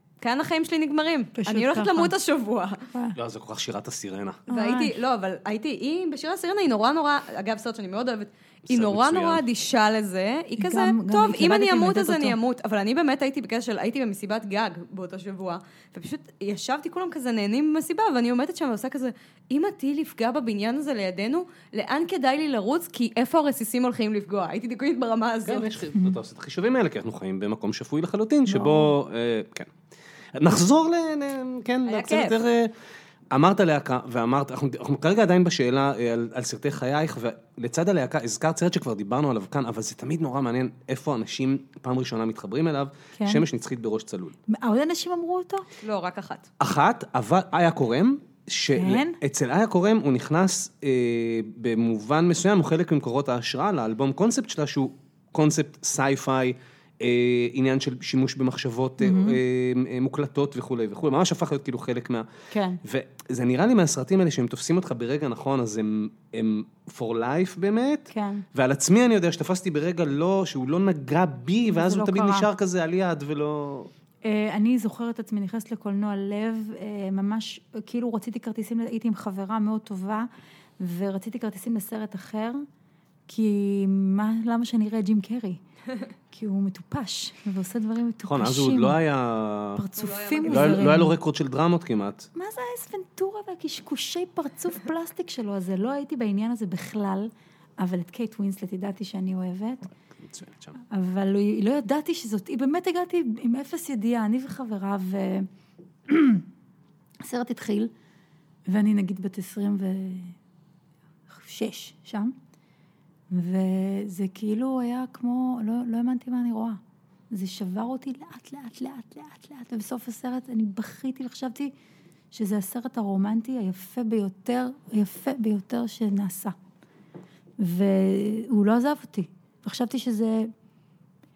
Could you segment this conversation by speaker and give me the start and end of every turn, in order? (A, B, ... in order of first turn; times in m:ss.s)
0:00.2-0:02.9 A
0:01.4-0:02.1 B
0:03.1-0:04.4 C
0:04.5-0:04.9 B
0:04.5-0:25.8 A
0:08.7-0:09.4 C
0:10.6-0:12.4 B
0:25.4-0:29.7 C
0:28.5-0:28.9 B
0:30.3-0:32.7 C
0:31.8-0:32.4 A
0:33.3-0:44.3 C
0:43.2-0:43.4 B
0:44.5-0:45.6 B
0:45.8-0:46.5 A
0:46.6-1:02.3 C
0:48.7-0:49.2 B
0:59.0-0:59.4 B
1:02.5-1:02.8 B
1:02.8-1:13.9 C
1:08.1-1:08.4 B
1:11.7-1:12.5 B
1:14.2-1:22.6 B
1:23.3-1:25.6 B
1:26.3-1:29.0 B
1:28.2-1:29.8 C
1:29.8-1:31.2 B
1:30.0-1:30.9 A
1:30.4-1:32.3 C
1:32.3-1:39.9 B
1:40.2-1:40.7 C
1:40.9-1:45.5 B
1:46.1-1:46.4 B
1:47.2-1:47.9 B
1:48.7-1:50.4 B
1:51.3-1:52.3 B
1:53.3-1:56.8 B
1:57.3-2:01.7 B
2:02.3-2:06.5 B
2:07.6-2:10.5 B